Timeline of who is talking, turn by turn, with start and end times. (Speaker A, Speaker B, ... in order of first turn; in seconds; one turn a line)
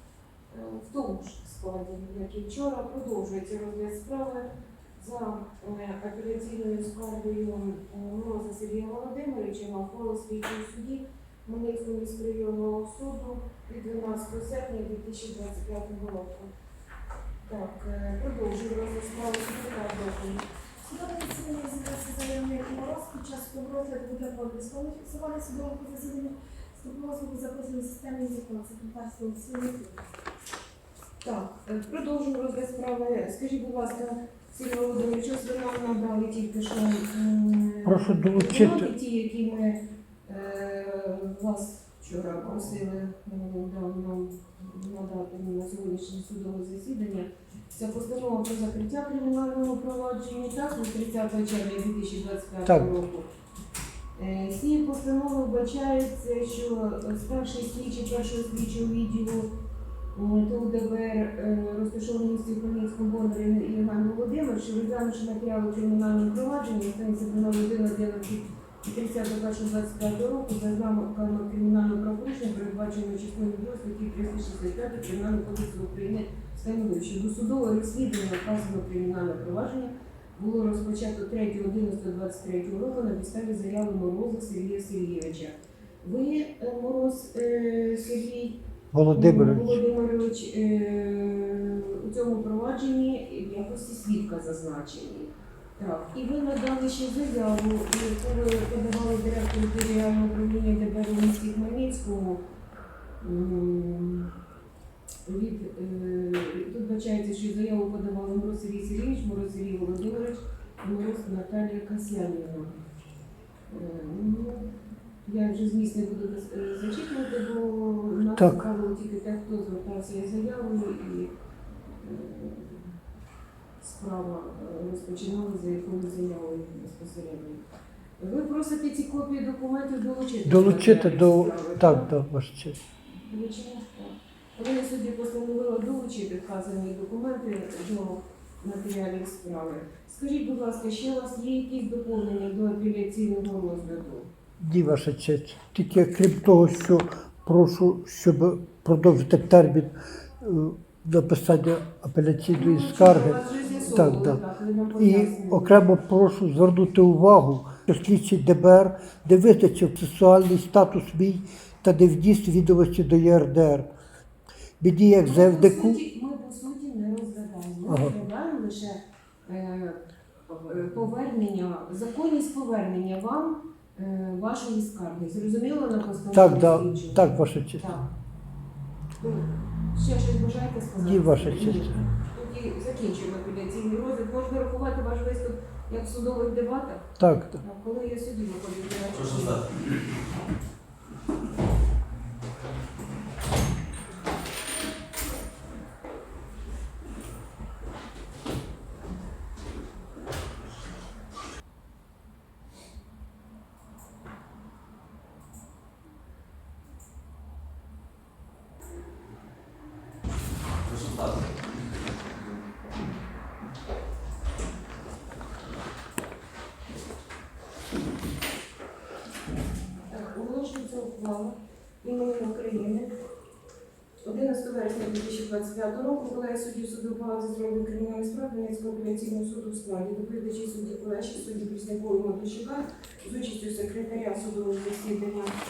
Speaker A: 0.5-16.5
Speaker A: 17.4-20.5
Speaker B: 20.9-30.0
Speaker A: 31.2-53.3
Speaker C: 37.9-38.9
Speaker C: 52.6-52.9
Speaker A: 54.1-59.5
Speaker A: 60.1-88.6
Speaker C: 88.9-89.8
Speaker A: 89.1-102.4
Speaker A: 103.2-104.3
Speaker A: 105.3-112.8
Speaker A: 113.7-114.7
Speaker A: 115.2-121.3
Speaker C: 118.4-118.6
Speaker A: 122.0-122.9
Speaker A: 123.8-127.6
Speaker A: 128.2-132.1
Speaker C: 130.5-132.8
Speaker A: 133.2-144.3
Speaker C: 144.6-154.4
Speaker A: 152.5-155.9
Speaker C: 155.0-163.9
Speaker C: 164.8-166.0
Speaker A: 165.2-178.1
Speaker C: 167.9-168.1
Speaker C: 176.3-177.8
Speaker A: 179.2-189.6
Speaker C: 181.0-182.0
Speaker C: 187.2-187.6
Speaker D: 189.1-189.7
Speaker D: 210.8-212.6
Speaker A: 220.1-223.1
Speaker A: 224.2-235.6